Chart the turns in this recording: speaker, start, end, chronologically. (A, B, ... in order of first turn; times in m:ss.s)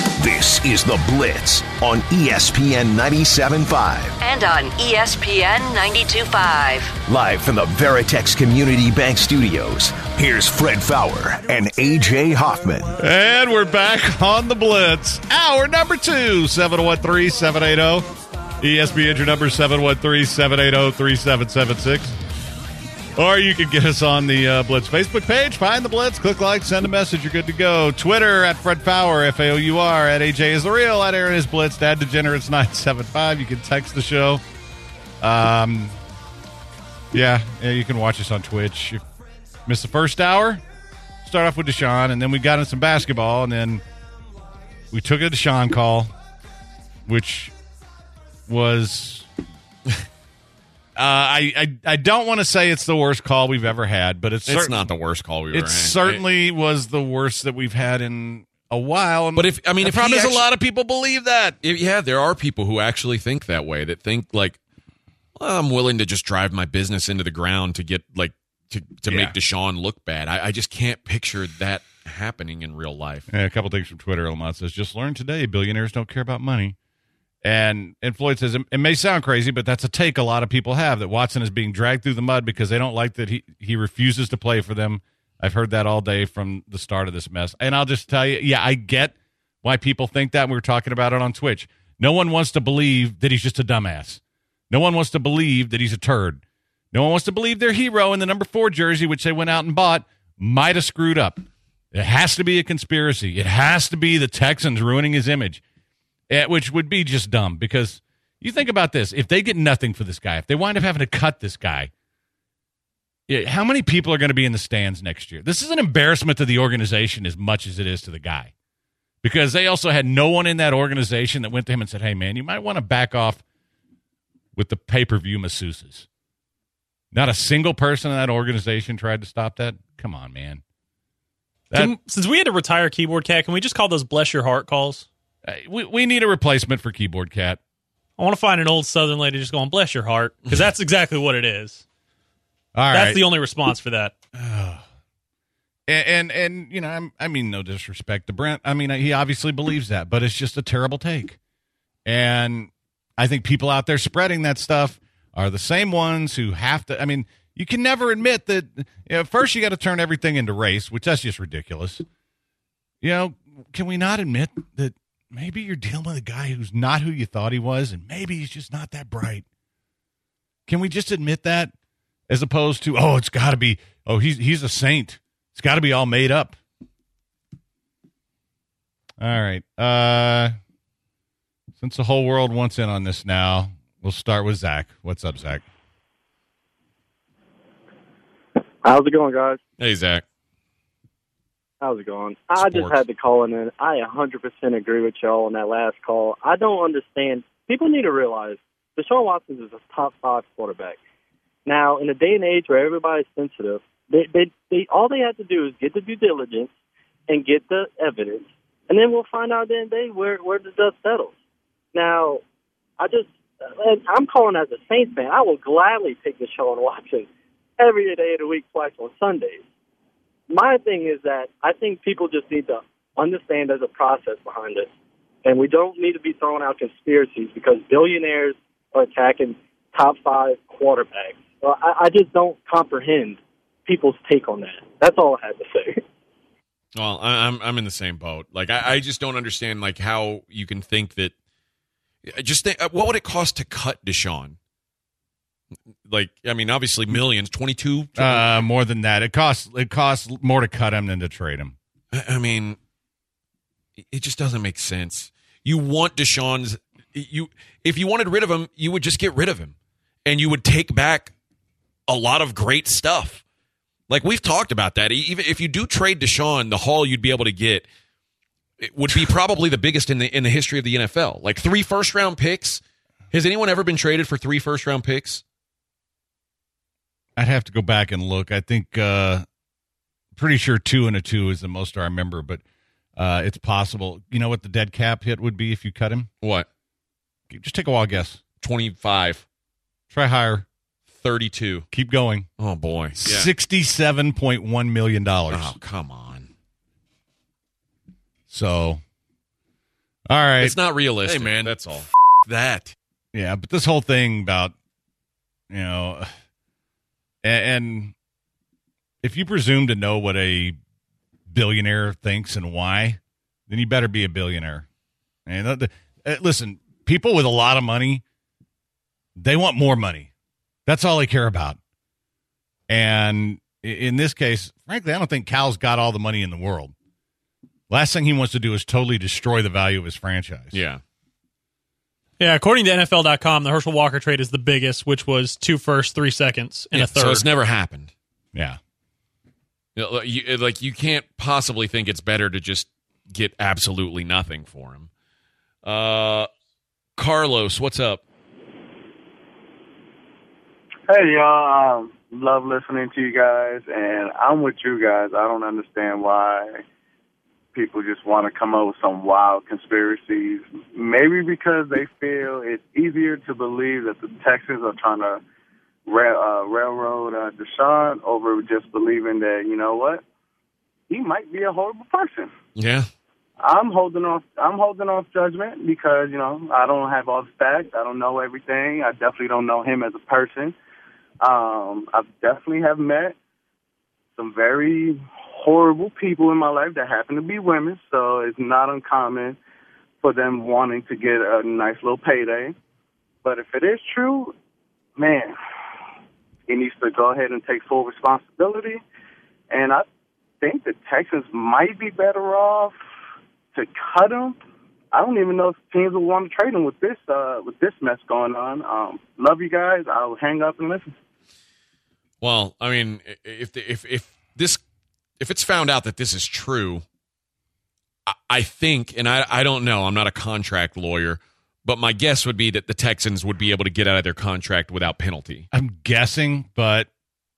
0:00.2-0:04.2 A
0:04.2-0:06.9 B
0:07.1-0:13.0 A
0:13.0-0:18.1 C
0:18.6-0:22.2 C
0:23.2-0:34.4 C
0:35.2-0:36.0 C
0:37.1-0:39.0 C
0:39.7-0:40.6 C
0:41.2-0:43.8 C
0:44.9-0:46.1 C
0:47.1-0:47.5 C
0:48.5-0:49.3 C
0:51.0-0:54.9 C
0:54.5-0:56.2 D
0:55.5-1:01.6 C
0:59.4-1:00.5 D
1:01.6-1:04.6 D
1:05.4-1:13.3 D
1:09.1-1:09.4 C
1:13.3-1:16.8 C
1:17.4-1:45.6 C
1:46.3-1:51.9 C
1:53.3-1:58.5 C
1:59.2-2:03.4 C
2:04.6-2:06.1 C
2:07.1-2:10.6 C
2:11.7-2:15.1 E
2:15.4-2:17.6 C
2:18.2-2:21.8 E
2:22.8-2:23.2 C
2:22.9-2:24.2 E
2:24.4-2:24.8 C
2:25.9-2:31.4 C
2:32.1-2:42.0 C
2:43.0-2:49.4 C
2:50.7-2:51.7 C
2:52.3-2:56.6 C
2:59.2-3:00.6 C
3:01.8-3:05.6 C
3:08.8-3:09.6 F
3:09.8-3:10.2 D
3:11.8-3:21.0 F
3:12.6-3:13.0 D
3:21.7-3:26.7 F
3:27.3-3:31.3 F
3:31.9-3:32.4 F
3:33.0-3:39.6 F
3:40.5-3:44.9 F
3:45.4-3:56.0 F
3:57.0-4:01.3 D
4:02.3-4:04.6 D
4:06.1-4:08.6 D
4:08.2-4:11.8 C
4:12.1-4:12.8 D
4:14.1-4:19.8 D
4:20.3-4:21.3 D
4:22.1-4:23.4 D
4:24.1-4:27.9 D
4:28.8-4:32.8 D
4:33.3-4:35.4 D
4:37.4-4:39.4 C
4:40.4-4:42.6 C
4:43.2-4:46.3 C
4:46.4-4:46.7 D
4:47.5-4:48.4 C
4:48.6-4:49.4 D
4:50.1-4:50.7 C
4:51.1-4:51.9 D
4:51.9-4:52.5 C
4:52.6-4:53.5 D
4:53.2-4:55.8 C
4:55.5-4:56.5 D
4:58.5-4:59.0 C
5:00.3-5:01.8 C
5:00.6-5:03.0 D
5:03.3-5:04.7 C
5:05.7-5:06.3 C
5:07.4-5:08.1 C
5:09.2-5:10.8 C
5:11.5-5:14.9 C
5:15.5-5:18.2 C
5:19.4-5:20.3 C
5:20.9-5:21.8 C
5:22.9-5:26.9 C
5:27.9-5:30.8 C
5:30.7-5:31.0 D
5:32.4-5:37.5 E
5:37.0-5:38.1 D
5:38.5-5:38.8 C
5:40.0-5:45.1 D
5:45.8-5:46.5 D
5:47.2-5:48.2 D
5:51.1-5:56.8 G
5:57.7-6:05.4 G
6:06.1-6:10.2 G
6:11.1-6:12.5 G
6:12.8-6:13.1 D
6:13.6-6:20.8 G
6:21.4-6:23.4 G
6:24.4-6:29.6 G
6:30.2-6:32.8 G
6:33.4-6:34.6 G
6:35.2-6:35.6 G
6:36.7-6:39.0 G
6:39.7-6:40.1 G
6:40.6-6:43.0 G
6:43.7-6:44.6 G
6:45.1-6:51.2 G
6:52.4-6:54.8 D
6:55.4-6:57.0 D
6:58.3-7:05.7 D
7:05.7-7:07.1 C